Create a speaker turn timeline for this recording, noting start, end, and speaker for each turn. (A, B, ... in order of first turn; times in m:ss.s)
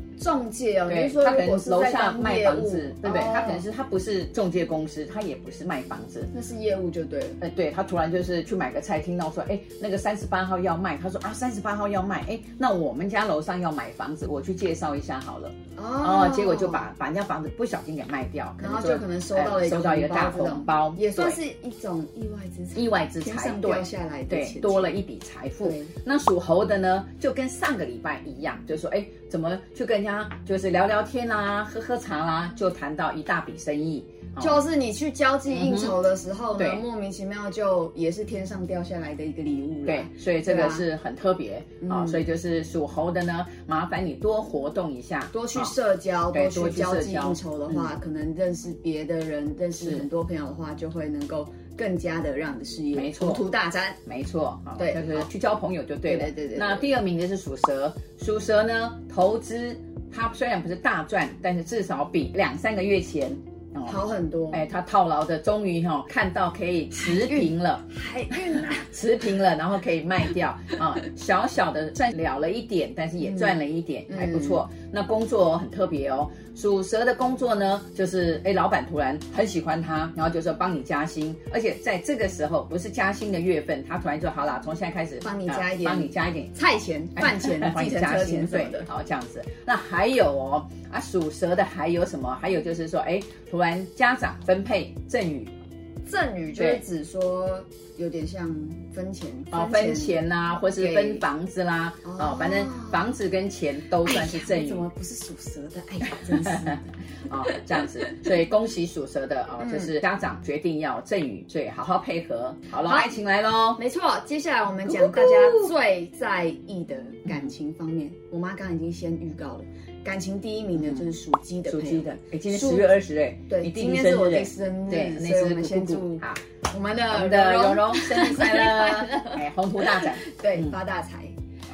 0:00.2-0:03.6 A
0:00.9-0:06.3 B
0:06.3-0:07.4 A
0:07.4-0:21.4 B
0:15.8-0:16.9 A
0:18.6-0:25.0 A
0:22.8-0:34.6 B
0:25.6-0:25.9 A
0:34.4-0:40.8 A
0:35.5-0:36.0 B
0:39.9-0:45.7 B
0:41.8-0:42.2 A
0:45.3-0:54.0 A
0:46.3-0:47.9 B
0:49.8-0:50.1 B
0:52.9-0:53.4 B
0:54.1-1:07.8 B
0:54.8-0:55.3 A
0:56.1-0:56.9 A
1:03.9-1:04.6 A
1:07.0-1:08.9 A
1:08.5-1:26.5 B
1:13.3-1:13.6 A
1:14.1-1:14.6 A
1:25.2-1:28.9 A
1:27.2-1:35.5 B
1:36.1-1:40.2 A
1:36.6-1:36.8 B
1:39.5-1:44.8 B
1:40.7-1:41.2 A
1:42.0-1:43.1 A
1:44.0-1:46.9 A
1:47.3-1:53.8 B
1:49.6-1:49.9 A
1:52.8-1:53.1 A
1:53.8-2:02.9 A
1:54.9-1:55.7 B
2:00.8-2:01.0 B
2:01.7-2:06.4 B
2:03.5-2:11.4 A
2:07.1-2:10.8 B